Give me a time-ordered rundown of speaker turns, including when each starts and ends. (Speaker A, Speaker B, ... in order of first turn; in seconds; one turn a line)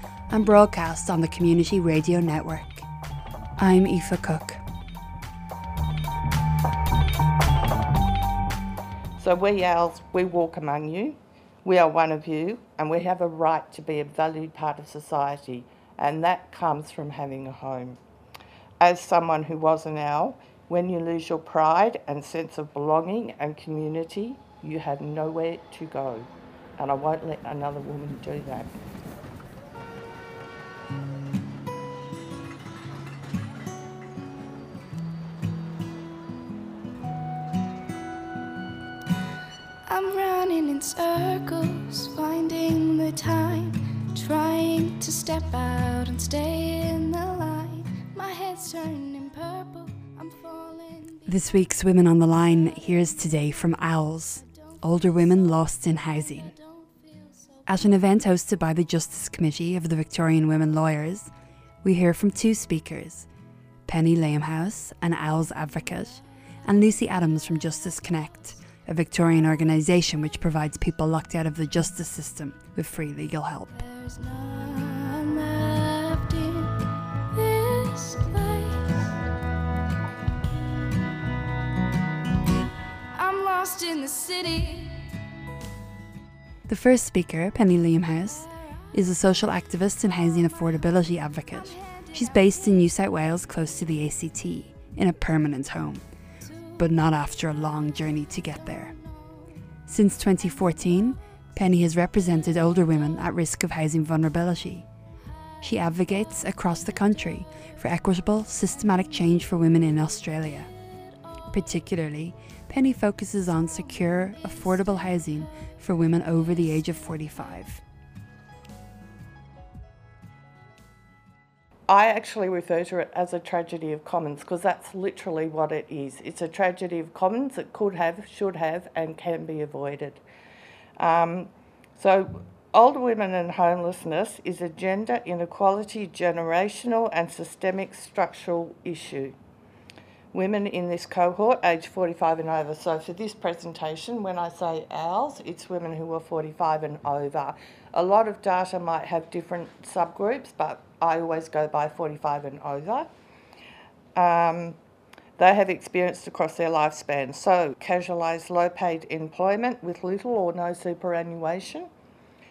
Speaker A: 0.3-2.9
Speaker A: 3.6-4.6
Speaker B: 9.2-18.0
Speaker B: 18.8-28.7
Speaker C: 39.9-58.3
Speaker A: 51.3-56.5
Speaker A: 57.7-61.3
Speaker A: 61.8-63.3
Speaker A: 63.9-73.7
Speaker C: 73.7-79.0
Speaker C: 83.1-85.1
Speaker A: 86.7-96.0
Speaker C: 88.2-88.9
Speaker C: 90.2-93.3
Speaker C: 96.4-99.5
Speaker A: 96.8-98.9
Speaker A: 99.9-104.9
Speaker C: 100.4-103.3
Speaker C: 105.2-111.9
Speaker A: 105.6-110.7
Speaker A: 111.5-117.8
Speaker C: 113.4-117.6
Speaker B: 121.9-130.2
Speaker B: 131.0-139.3
Speaker B: 140.3-153.1
Speaker B: 154.2-154.8
Speaker B: 155.4-161.9